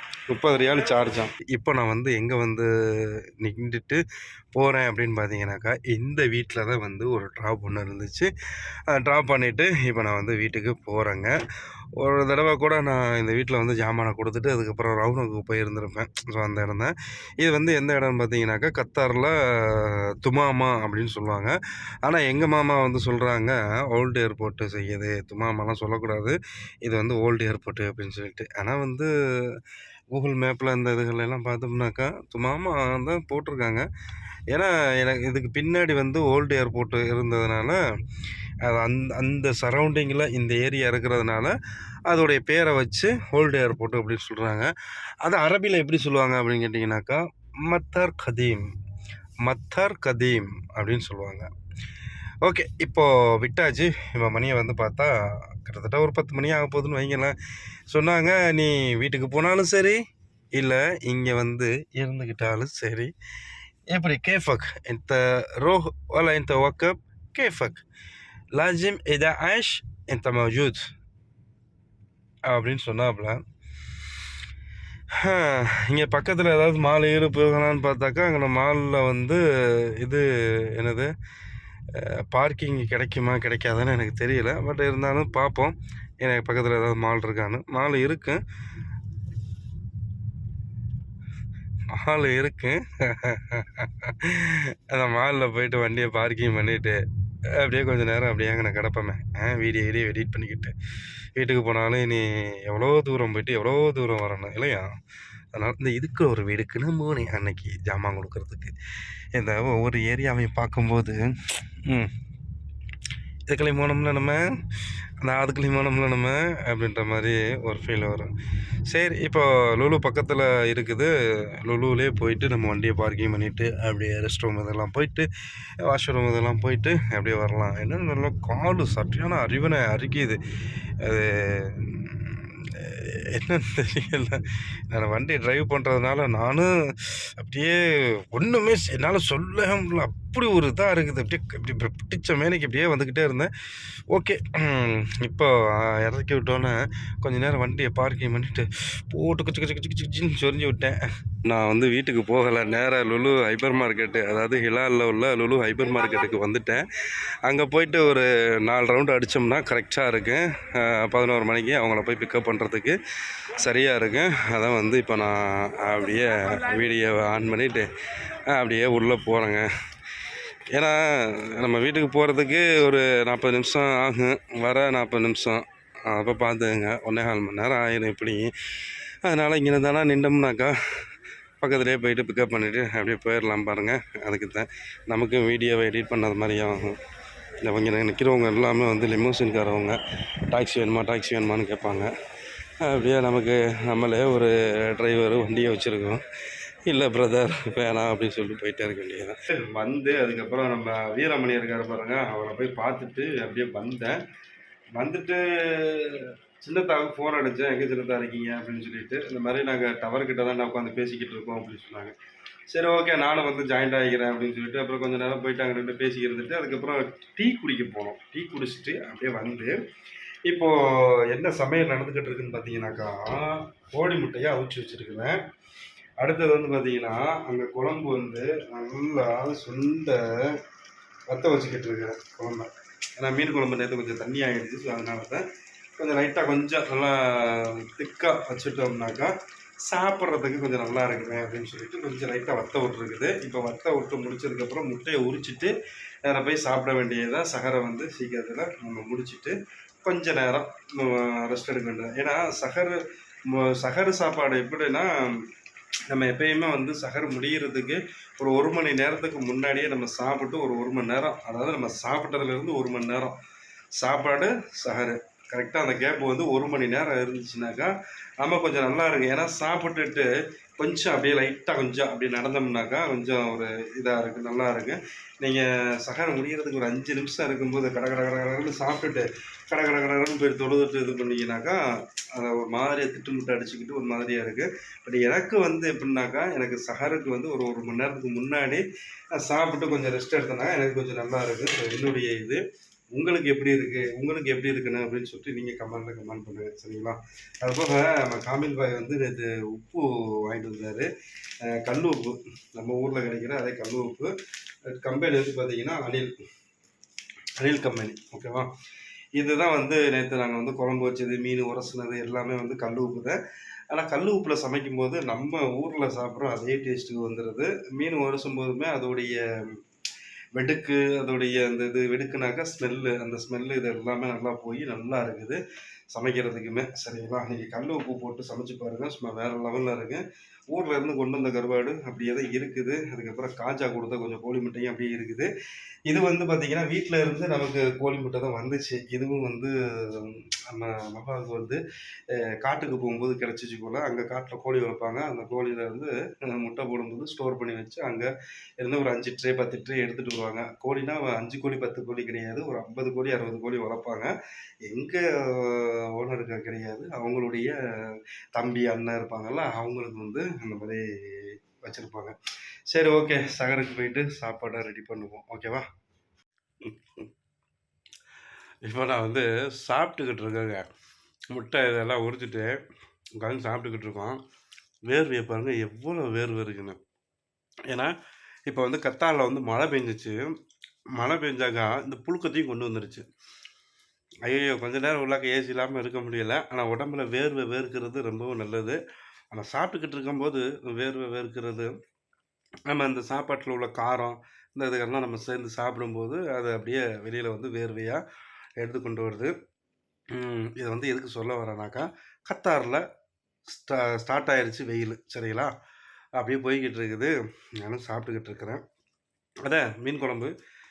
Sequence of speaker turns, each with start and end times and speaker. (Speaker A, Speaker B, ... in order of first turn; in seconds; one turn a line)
Speaker A: 0.3-4.0
Speaker A: 4.5-8.3
Speaker A: 8.9-11.3
Speaker A: 12.0-29.6
Speaker A: 30.1-33.9
Speaker A: 34.5-37.8
Speaker A: 38.6-41.5
Speaker A: 42.1-44.7
Speaker A: 45.2-48.7
Speaker A: 49.4-51.5
Speaker A: 52.4-57.4
Speaker A: 57.9-60.0
Speaker A: 60.6-63.1
Speaker A: 63.9-67.8
Speaker A: 68.5-70.9
Speaker A: 72.5-73.4
Speaker A: 75.2-81.1
Speaker A: 81.9-88.4
Speaker A: 91.9-97.0
Speaker A: 97.6-100.7
Speaker A: 101.4-104.9
Speaker A: 105.5-108.7
Speaker A: 109.3-112.1
Speaker A: 113.5-114.5
Speaker A: 115.2-118.3
Speaker A: 118.9-125.3
Speaker A: 125.8-130.4
Speaker A: 131.0-143.5
Speaker A: 144.1-156.9
Speaker A: 157.4-163.0
Speaker A: 163.5-169.7
Speaker A: 170.7-180.8
Speaker A: 181.6-187.0
Speaker A: 187.6-192.1
Speaker A: 192.8-196.2
Speaker A: 196.9-204.2
Speaker A: 204.9-212.2
Speaker A: 212.7-219.8
Speaker A: 220.5-225.4
Speaker A: 226.2-230.6
Speaker A: 231.3-235.5
Speaker A: 236.0-245.7
Speaker A: 246.2-255.4
Speaker A: 256.1-263.4
Speaker A: 264.0-270.3
Speaker A: 270.8-292.6
Speaker A: 293.1-301.1
Speaker A: 301.6-304.3
Speaker A: 304.9-306.3
Speaker A: 307.6-308.7
Speaker A: 309.4-313.4
Speaker A: 313.9-319.8
Speaker A: 320.6-325.6
Speaker A: 326.1-335.5
Speaker A: 336.1-341.8
Speaker A: 342.4-354.3
Speaker A: 354.9-362.4
Speaker A: 362.9-365.9
Speaker A: 366.8-367.3
Speaker A: 368.8-370.9
Speaker A: 371.5-372.8
Speaker A: 373.4-374.4
Speaker A: 375.1-377.0
Speaker A: 378.7-380.5
Speaker A: 381.2-383.3
Speaker A: 384.4-389.0
Speaker A: 389.5-392.0
Speaker A: 392.9-398.2
Speaker A: 398.8-399.6
Speaker A: 400.3-403.1
Speaker A: 403.7-405.7
Speaker A: 406.4-408.8
Speaker A: 409.6-410.5